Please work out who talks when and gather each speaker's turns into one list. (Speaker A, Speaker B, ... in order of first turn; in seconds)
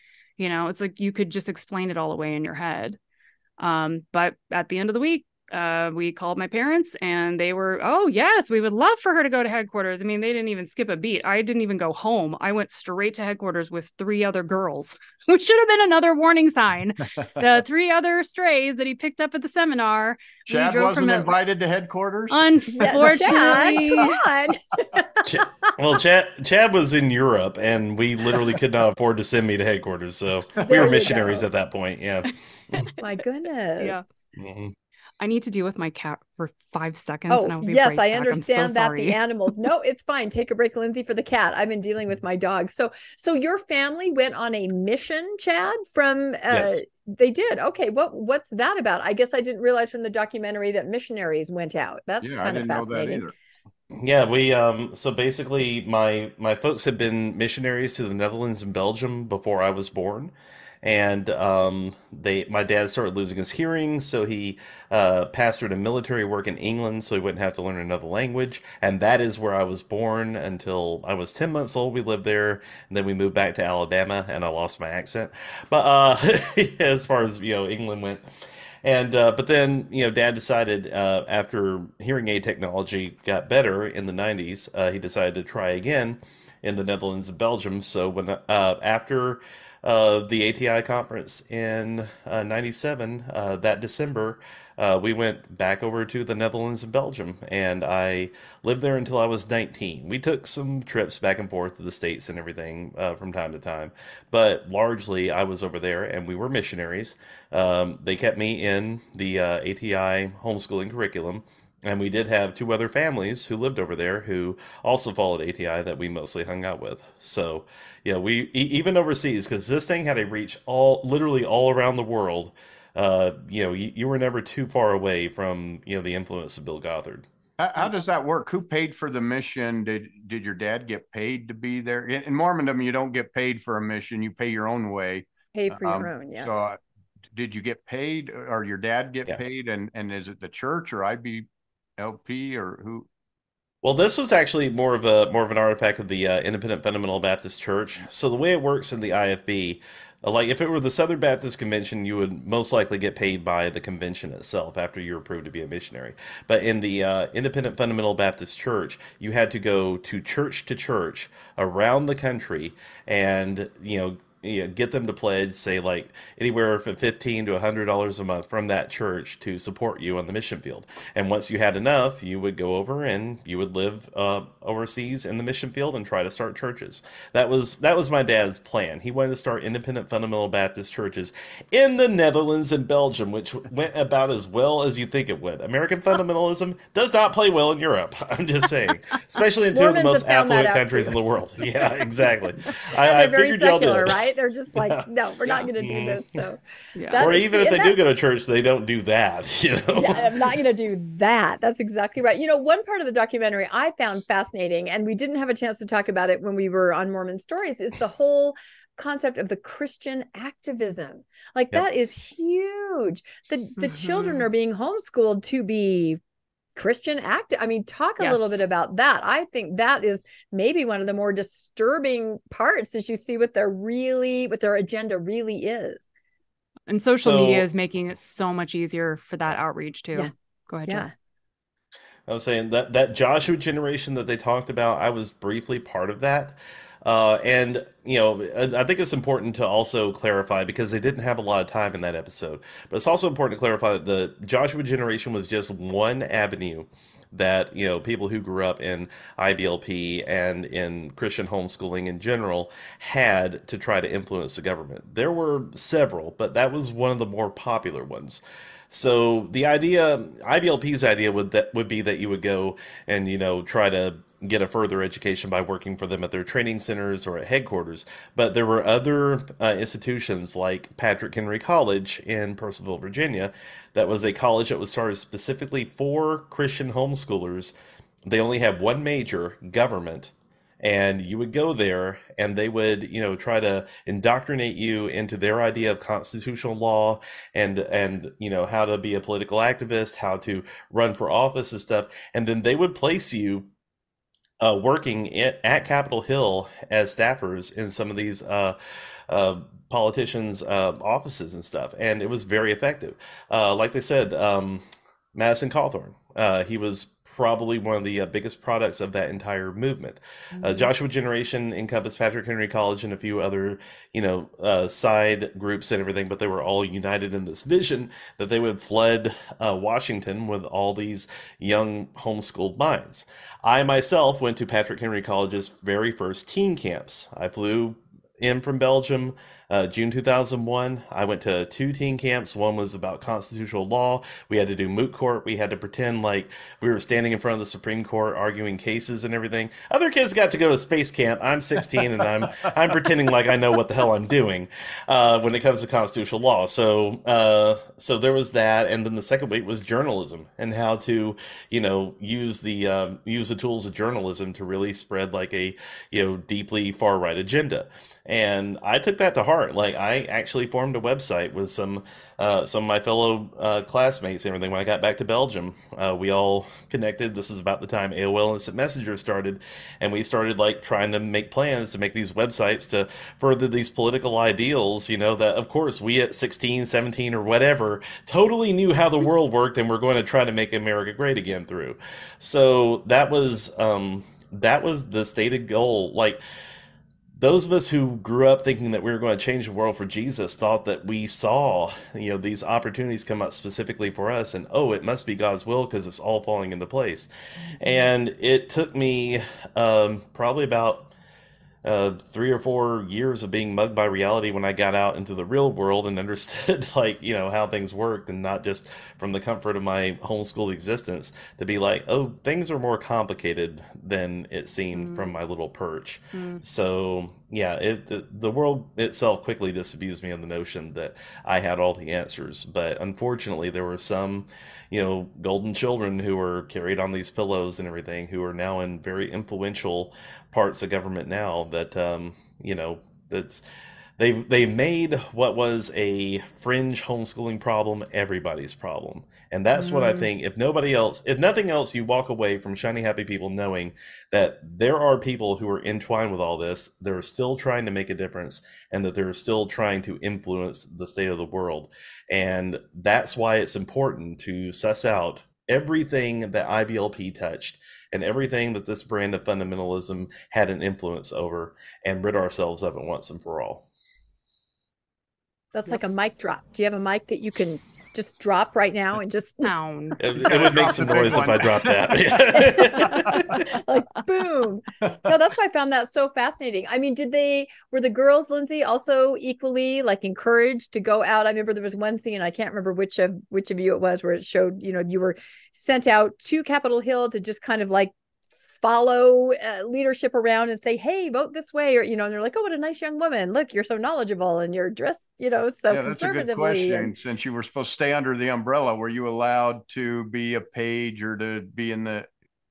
Speaker A: 0.4-3.0, 3.6-21.4, 22.3-24.2, 33.8-34.0, 35.2-39.2, 196.9-197.2, 213.8-214.5, 218.2-218.6, 226.9-231.1, 310.5-310.9, 414.9-415.3, 416.3-416.6, 439.7-440.3, 469.6-470.2
Speaker B: 20.5-23.8, 30.6-31.4, 52.2-53.3, 127.6-136.8, 137.3-141.4, 142.0-143.1, 470.4-473.6, 495.9-502.3
Speaker C: 22.8-25.4, 30.6-31.4, 33.0-34.0, 37.3-53.2, 135.5-136.5, 189.7-191.2, 192.9-197.9, 199.9-216.2, 216.8-226.0, 230.8-231.1, 465.7-469.7, 472.5-488.1, 488.7-497.1
Speaker D: 25.2-32.9, 34.4-34.7, 46.5-46.8, 54.0-78.2, 78.8-127.2, 143.8-194.2, 194.7-196.4, 197.2-200.6, 227.2-227.7, 232.3-277.7, 278.2-293.7, 294.6-298.8, 299.3-386.4, 387.4-401.1, 401.8-433.6, 434.2-463.9, 470.2-473.6